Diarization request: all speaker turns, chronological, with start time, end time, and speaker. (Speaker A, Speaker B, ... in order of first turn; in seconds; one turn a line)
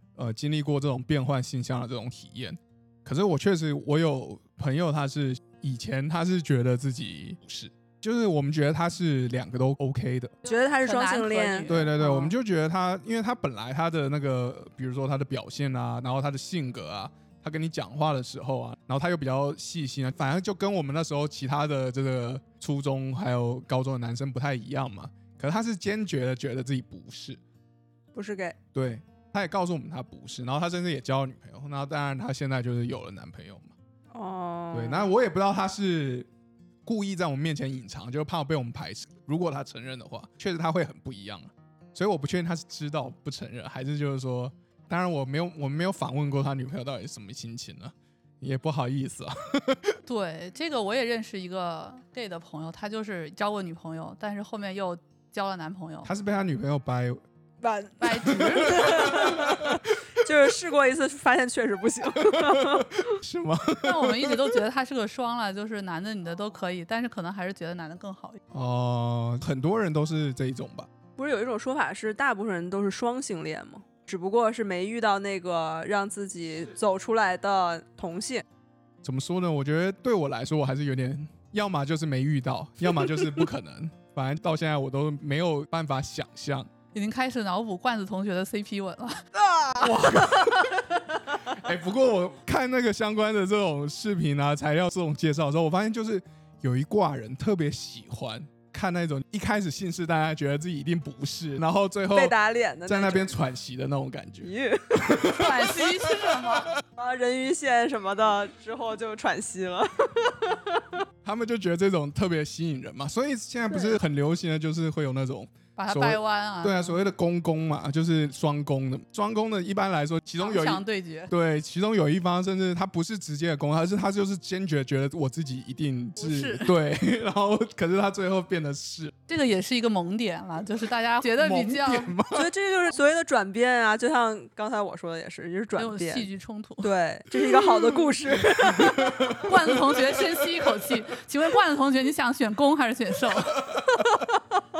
Speaker A: 0.2-10.4
Speaker B: 10.4-12.2
Speaker C: 10.5-12.3
Speaker A: 11.7-27.4
Speaker B: 28.1-28.6
Speaker A: 28.7-33.7
Speaker B: 34.1-35.1
Speaker A: 34.7-36.3
Speaker A: 36.9-50.0
Speaker C: 50.1-56.1
Speaker A: 56.0-57.2
Speaker B: 57.6-63.0
Speaker C: 58.0-59.4
Speaker A: 58.2-60.3
Speaker A: 62.2-64.6
Speaker C: 63.8-68.4
Speaker A: 68.5-70.9
Speaker B: 71.2-78.4
Speaker A: 79.0-86.7
Speaker B: 83.0-83.4
Speaker C: 86.9-89.3
Speaker B: 89.4-90.2
Speaker A: 89.8-102.3
Speaker B: 102.1-103.3
Speaker A: 102.8-106.6
Speaker B: 104.4-105.2
Speaker C: 105.3-106.7
Speaker B: 107.0-111.0
Speaker A: 111.2-129.1
Speaker C: 115.8-117.0
Speaker C: 120.4-121.3
Speaker C: 126.2-126.7
Speaker C: 129.3-132.2
Speaker A: 131.4-132.5
Speaker B: 132.3-136.3
Speaker C: 135.8-137.9
Speaker B: 136.8-139.3
Speaker A: 138.3-140.7
Speaker C: 139.4-143.7
Speaker A: 143.6-144.0